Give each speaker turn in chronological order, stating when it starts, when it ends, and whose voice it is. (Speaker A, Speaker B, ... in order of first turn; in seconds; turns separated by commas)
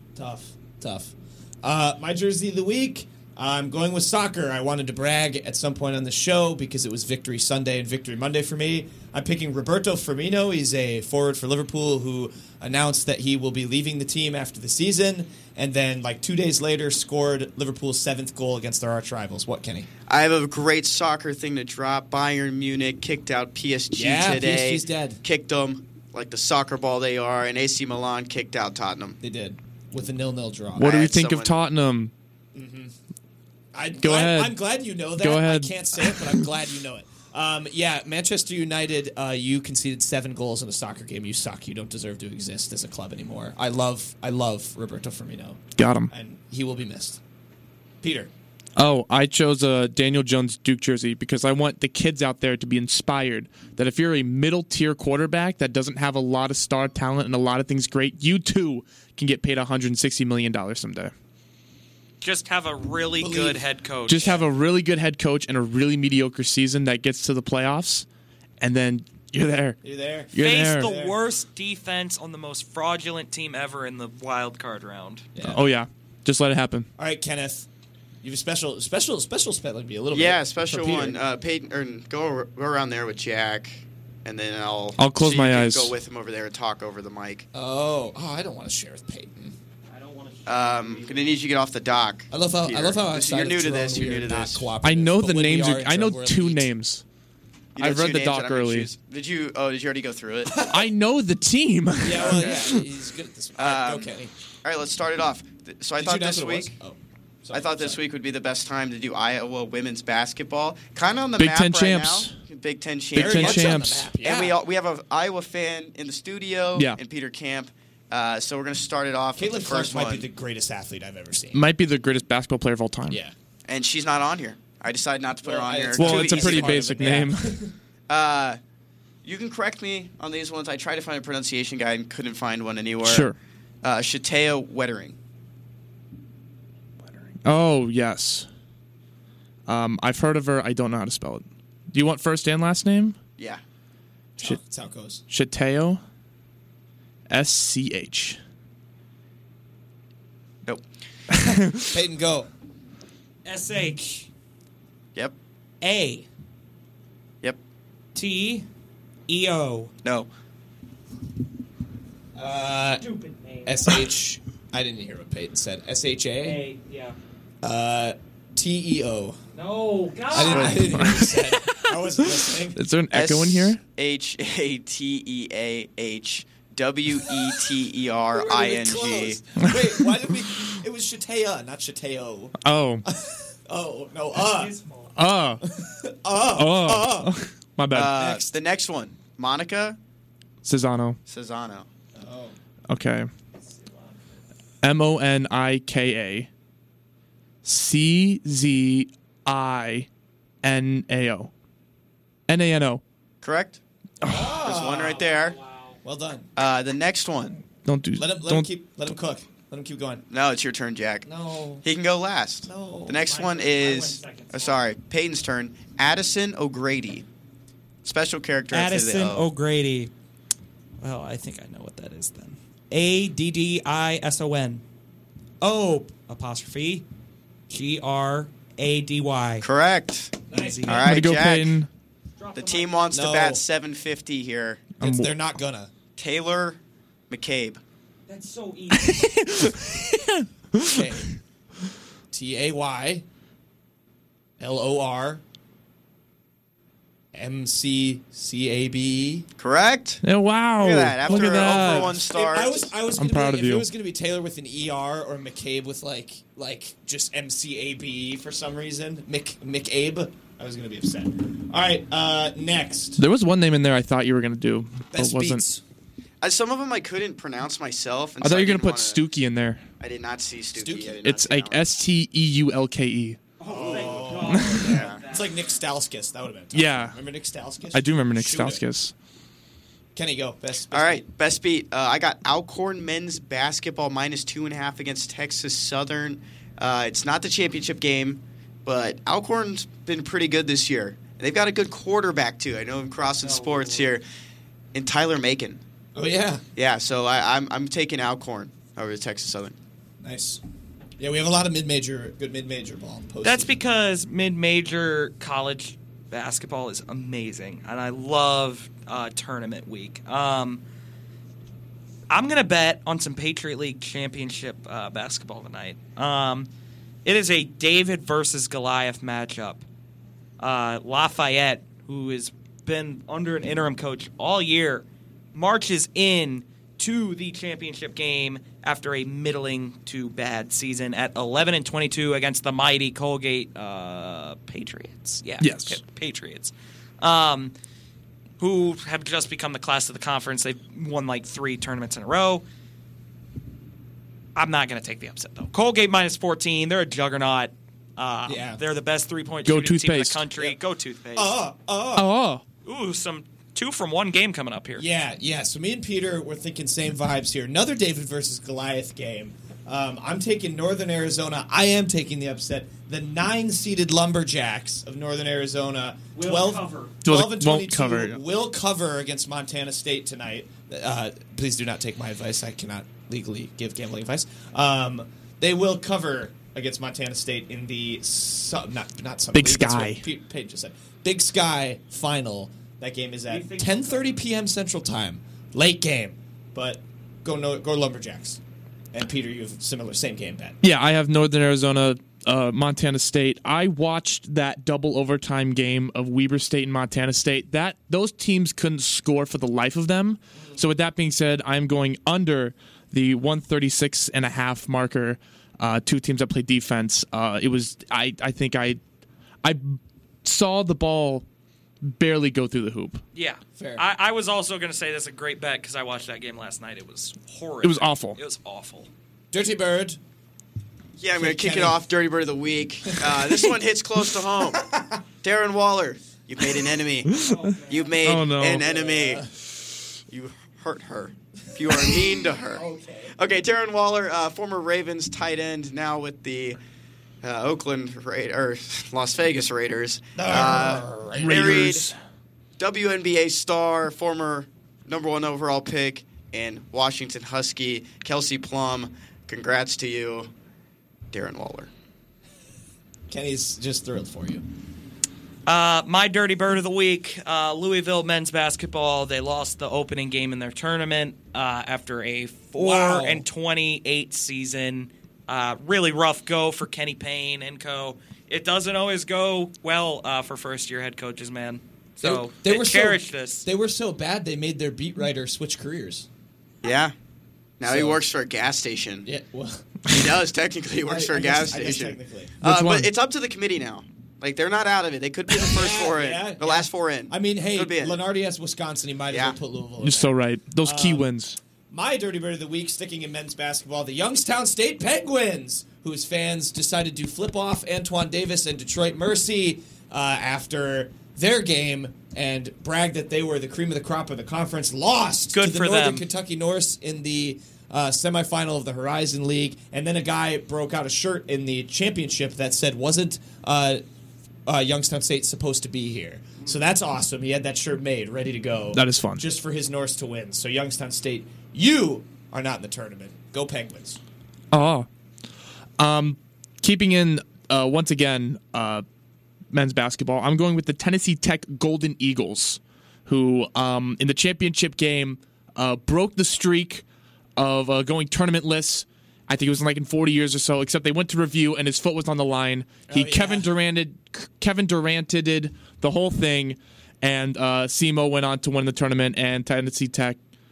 Speaker A: 0.1-19.9, Speaker B: 20.1-29.2, Speaker A: 23.9-25.2, Speaker A: 29.2-31.0, Speaker C: 30.8-32.1, Speaker B: 30.8-31.6, Speaker A: 32.5-32.9, Speaker A: 33.7-47.2, Speaker C: 34.0-36.4, Speaker C: 45.8-46.1, Speaker A: 48.0-48.3, Speaker C: 48.8-61.1, Speaker D: 62.2-64.4, Speaker A: 63.2-63.6, Speaker C: 64.1-68.0, Speaker C: 68.6-69.8, Speaker A: 69.8-71.2, Speaker C: 70.3-70.9, Speaker D: 70.4-75.3, Speaker A: 75.3-75.7, Speaker C: 75.4-76.9, Speaker A: 77.0-77.7, Speaker A: 78.2-81.2, Speaker B: 80.1-87.5, Speaker C: 85.0-85.9, Speaker A: 87.5-89.5, Speaker D: 89.9-91.3, Speaker B: 90.5-94.7, Speaker A: 92.3-96.7, Speaker C: 94.8-97.0, Speaker B: 97.8-100.7, Speaker C: 97.8-98.9, Speaker A: 100.5-100.8, Speaker C: 100.7-102.8, Speaker A: 102.0-104.3, Speaker B: 102.2-102.6, Speaker B: 103.6-104.1, Speaker B: 104.6-106.7, Speaker A: 106.0-108.0, Speaker B: 107.5-120.3, Speaker C: 111.4-112.3, Speaker C: 113.1-114.1, Speaker A: 113.1-114.6, Speaker A: 119.3-121.6, Speaker C: 121.5-123.2, Speaker A: 123.1-123.3, Speaker B: 123.7-127.2, Speaker A: 125.4-127.7, Speaker C: 126.0-127.6, Speaker B: 128.1-128.6, Speaker B: 129.2-135.2, Speaker C: 133.0-133.3, Speaker C: 137.4-138.5, Speaker C: 139.7-143.2, Speaker A: 144.4-145.2, Speaker C: 145.3-146.0, Speaker C: 147.3-148.4, Speaker C: 151.3-151.8, Speaker A: 151.8-152.5, Speaker D: 153.4-154.3, Speaker D: 155.8-156.3, Speaker D: 158.1-158.7, Speaker D: 159.3-159.9, Speaker B: 160.0-160.3, Speaker A: 162.3-163.1, Speaker D: 163.0-164.0, Speaker A: 163.6-166.6, Speaker D: 166.4-167.2, Speaker A: 167.6-169.4, Speaker D: 169.5-171.0, Speaker A: 170.3-172.8, Speaker C: 170.4-173.8, Speaker B: 173.1-179.4, Speaker A: 178.3-184.7, Speaker C: 182.6-183.0, Speaker D: 184.3-185.2, Speaker C: 185.2-185.7, Speaker A: 185.6-187.3, Speaker C: 186.5-188.3, Speaker B: 187.9-190.0, Speaker A: 188.1-188.5, Speaker C: 190.6-191.2, Speaker B: 191.3-191.9, Speaker A: 192.1-192.6, Speaker C: 192.9-193.3, Speaker D: 193.6-194.2, Speaker C: 194.8-196.5, Speaker C: 197.6-200.1, Speaker C: 200.6-201.5, Speaker C: 202.5-203.0, Speaker B: 203.4-203.8, Speaker C: 204.2-204.5, Speaker A: 204.2-205.2, Speaker B: 204.6-205.6, Speaker D: 204.8-206.0, Speaker A: 206.0-206.5, Speaker B: 206.6-207.6, Speaker C: 207.8-208.7, Speaker A: 208.1-210.2, Speaker B: 210.3-211.3, Speaker A: 211.2-211.8, Speaker B: 211.8-217.2, Speaker A: 212.6-213.2, Speaker D: 213.1-214.8, Speaker B: 218.0-219.5, Speaker D: 218.7-220.1, Speaker D: 221.0-224.8, Speaker D: 225.6-227.0, Speaker D: 227.7-229.6, Speaker B: 229.6-231.8, Speaker A: 230.5-231.0, Speaker D: 230.5-231.0, Speaker C: 230.9-231.9, Speaker D: 232.4-232.9, Speaker B: 232.5-234.9, Speaker A: 233.1-233.6, Speaker C: 235.0-235.3, Speaker A: 235.0-235.9, Speaker B: 236.2-236.8, Speaker B: 237.3-237.8, Speaker D: 238.3-239.2, Speaker C: 239.0-241.0, Speaker A: 240.8-241.3, Speaker A: 242.3-243.2, Speaker A: 244.6-245.4, Speaker A: 247.3-249.4, Speaker B: 249.6-250.2, Speaker C: 250.2-252.2, Speaker B: 250.8-252.9, Speaker A: 251.6-263.2, Speaker C: 253.2-253.8, Speaker C: 263.2-265.6, Speaker A: 265.1-265.8, Speaker B: 266.4-269.2, Speaker C: 268.4-269.8, Speaker B: 270.0-271.9, Speaker A: 270.7-271.2, Speaker C: 271.2-273.4, Speaker D: 273.6-275.5, Speaker A: 273.6-278.8, Speaker B: 273.7-275.2, Speaker C: 274.5-275.0, Speaker C: 276.7-277.2, Speaker C: 277.9-279.1, Speaker A: 280.1-281.2, Speaker B: 280.9-294.2, Speaker D: 293.4-294.1, Speaker B: 294.9-295.8, Speaker A: 296.1-296.6, Speaker B: 296.8-299.7, Speaker A: 300.2-300.6, Speaker A: 301.2-303.8, Speaker D: 303.4-310.8, Speaker D: 312.3-316.7, Speaker D: 317.2-319.8, Speaker D: 320.6-337.7, Speaker C: 335.6-336.0, Speaker D: 338.6-342.6, Speaker D: 344.6-351.6, Speaker A: 348.4-348.8, Speaker C: 349.6-350.4, Speaker A: 351.3-352.3, Speaker C: 352.1-352.6, Speaker D: 352.8-355.1, Speaker A: 354.9-388.6, Speaker D: 366.3-367.1, Speaker C: 367.2-368.4, Speaker C: 379.5-380.2, Speaker D: 383.5-384.4, Speaker A: 389.1-390.8, Speaker C: 390.8-409.0, Speaker C: 409.6-411.4, Speaker C: 412.0-413.2, Speaker D: 413.3-419.1, Speaker A: 413.8-414.0, Speaker C: 417.8-418.4, Speaker A: 419.5-420.2, Speaker B: 421.2-424.9, Speaker A: 421.3-422.0, Speaker A: 423.1-423.7, Speaker A: 424.7-425.2, Speaker B: 425.4-427.4, Speaker C: 427.3-427.6, Speaker D: 427.4-428.1, Speaker B: 427.9-429.4, Speaker C: 428.2-428.8, Speaker A: 428.6-429.5, Speaker B: 430.3-432.8, Speaker A: 431.9-433.4, Speaker B: 433.4-436.8, Speaker B: 437.4-442.1, Speaker A: 440.4-441.9, Speaker C: 441.4-442.1, Speaker B: 442.8-450.5, Speaker B: 451.3-451.9, Speaker A: 453.3-454.6, Speaker D: 455.6-473.7, Speaker A: 462.8-463.4, Speaker A: 472.2-476.3, Speaker B: 476.8-477.1, Speaker B: 477.8-479.3, Speaker A: 477.8-478.2, Speaker A: 479.2-479.9, Speaker B: 480.1-488.2, Speaker A: 481.0-482.6, Speaker C: 482.6-483.1, Speaker A: 485.5-491.3, Speaker B: 489.3-489.6, Speaker C: 490.0-491.6, Speaker A: 491.9-514.0, Speaker D: 505.5-506.2, Speaker A: 514.6-524.2, Speaker C: 518.9-519.4, Speaker C: 524.7-525.1, Speaker C: 526.0-529.0, Speaker C: 529.7-537.0, Speaker C: 537.6-550.4, Speaker A: 543.1-543.7